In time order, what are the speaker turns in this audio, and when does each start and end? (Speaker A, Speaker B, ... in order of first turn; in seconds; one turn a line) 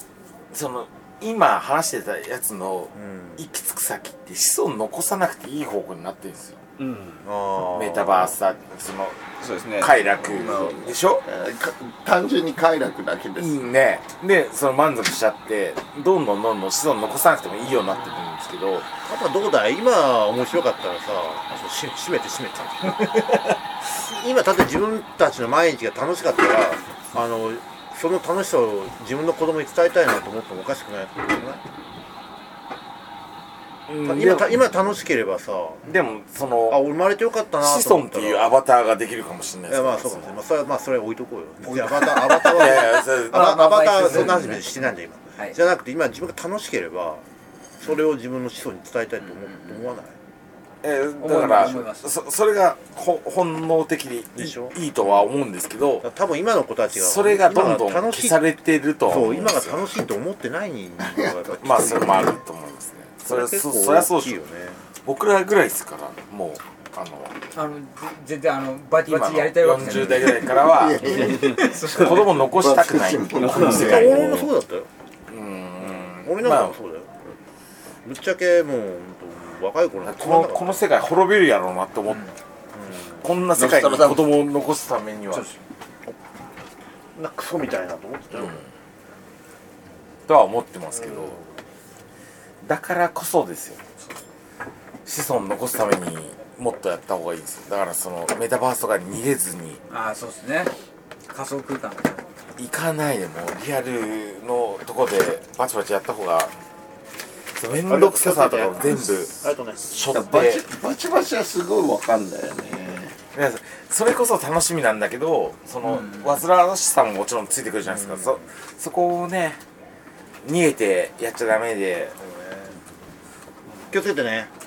Speaker A: 0.5-6.6
Speaker B: 3.0-3.4
Speaker C: 6.8-7.2
Speaker B: 7.2-8.3
Speaker A: 7.7-9.2
Speaker C: 9.4-10.8
Speaker A: 9.8-11.2
Speaker D: 10.3-13.6
Speaker A: 13.4-18.9
Speaker B: 19.0-31.6
Speaker A: 33.9-34.7
Speaker B: 34.0-35.9
Speaker A: 35.9-36.8
Speaker B: 36.7-38.5
Speaker A: 37.6-40.3
Speaker B: 39.7-47.2
Speaker A: 41.7-44.6
Speaker E: 42.0-44.6
Speaker B: 47.8-50.2
Speaker A: 50.8-56.0
Speaker E: 51.2-52.1
Speaker B: 54.4-55.2
Speaker B: 56.0-58.4
Speaker A: 56.9-59.9
Speaker B: 59.1-62.4
Speaker D: 61.0-62.3
Speaker A: 61.6-64.4
Speaker B: 63.3-64.8
Speaker A: 65.0-67.3
Speaker E: 67.5-70.5
Speaker A: 69.1-74.5
Speaker D: 70.4-74.3
Speaker E: 71.2-72.3
Speaker C: 73.4-74.1
Speaker B: 73.6-74.9
Speaker A: 75.3-76.8
Speaker B: 76.1-77.1
Speaker B: 78.0-80.9
Speaker A: 80.0-82.3
Speaker B: 82.7-83.2
Speaker A: 83.2-85.5
Speaker C: 83.6-84.2
Speaker B: 87.2-88.6
Speaker A: 88.4-88.6
Speaker A: 90.3-91.4
Speaker A: 92.6-93.8
Speaker A: 95.0-99.8
Speaker E: 99.9-100.7
Speaker E: 101.3-102.2
Speaker A: 102.6-106.5
Speaker A: 107.5-110.6
Speaker B: 107.9-110.0
Speaker D: 110.1-113.2
Speaker A: 113.3-119.6
Speaker B: 117.9-118.4
Speaker A: 120.4-122.2
Speaker B: 122.2-122.7
Speaker B: 123.9-124.5